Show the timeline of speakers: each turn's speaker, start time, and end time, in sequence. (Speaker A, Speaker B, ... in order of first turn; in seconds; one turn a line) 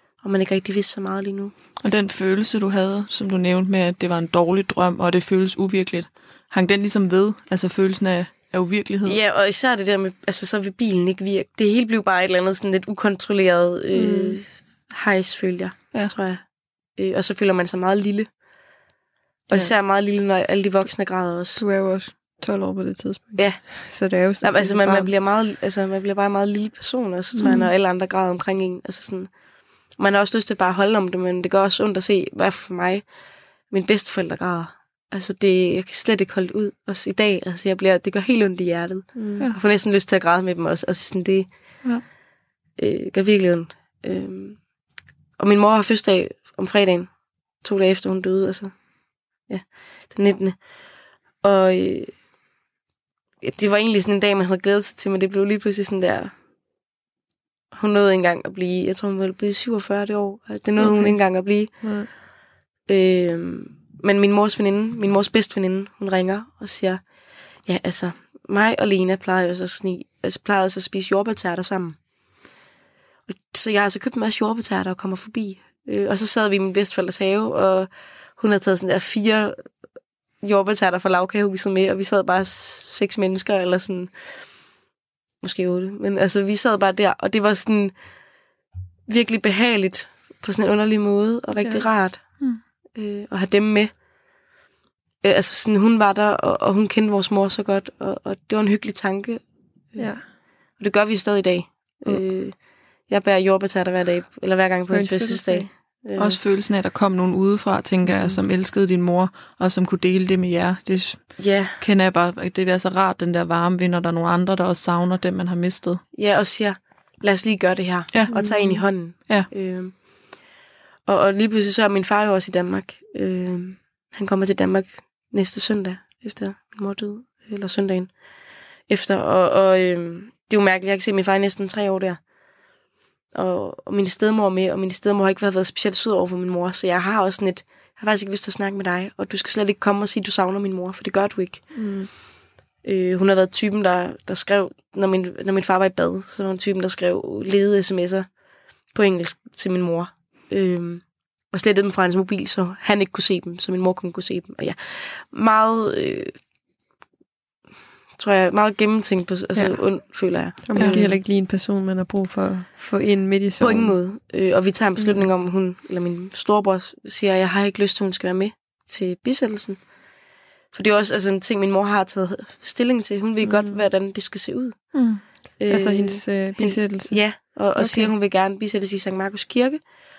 Speaker A: 0.2-1.5
Speaker B: 1.8-9.2
Speaker A: 9.0-18.3
Speaker C: 13.9-14.4
Speaker A: 19.5-21.6
Speaker C: 21.6-25.1
Speaker A: 23.3-29.3
Speaker C: 27.3-27.7
Speaker A: 29.9-41.9
Speaker C: 39.1-39.5
Speaker A: 42.8-44.8
Speaker A: 45.4-52.2
Speaker A: 53.4-56.3
Speaker A: 57.7-62.2
Speaker C: 60.8-62.1
Speaker A: 62.8-67.0
Speaker A: 67.6-72.0
Speaker A: 73.3-79.7
Speaker A: 80.4-84.1
Speaker A: 85.4-87.9
Speaker A: 89.1-93.9
Speaker C: 91.6-91.9
Speaker A: 95.2-106.4
Speaker C: 100.0-100.3
Speaker C: 104.9-105.7
Speaker B: 106.2-116.0
Speaker C: 108.0-108.4
Speaker A: 111.4-111.8
Speaker A: 116.1-120.5
Speaker C: 118.3-118.8
Speaker A: 121.0-132.2
Speaker A: 133.3-141.8
Speaker C: 141.7-142.1
Speaker A: 142.8-148.3
Speaker A: 148.9-156.3
Speaker A: 158.2-161.2
Speaker C: 159.5-163.9
Speaker A: 163.6-169.9
Speaker C: 165.0-165.2
Speaker A: 170.7-179.8
Speaker C: 173.4-173.8
Speaker B: 174.9-175.2
Speaker C: 175.7-178.1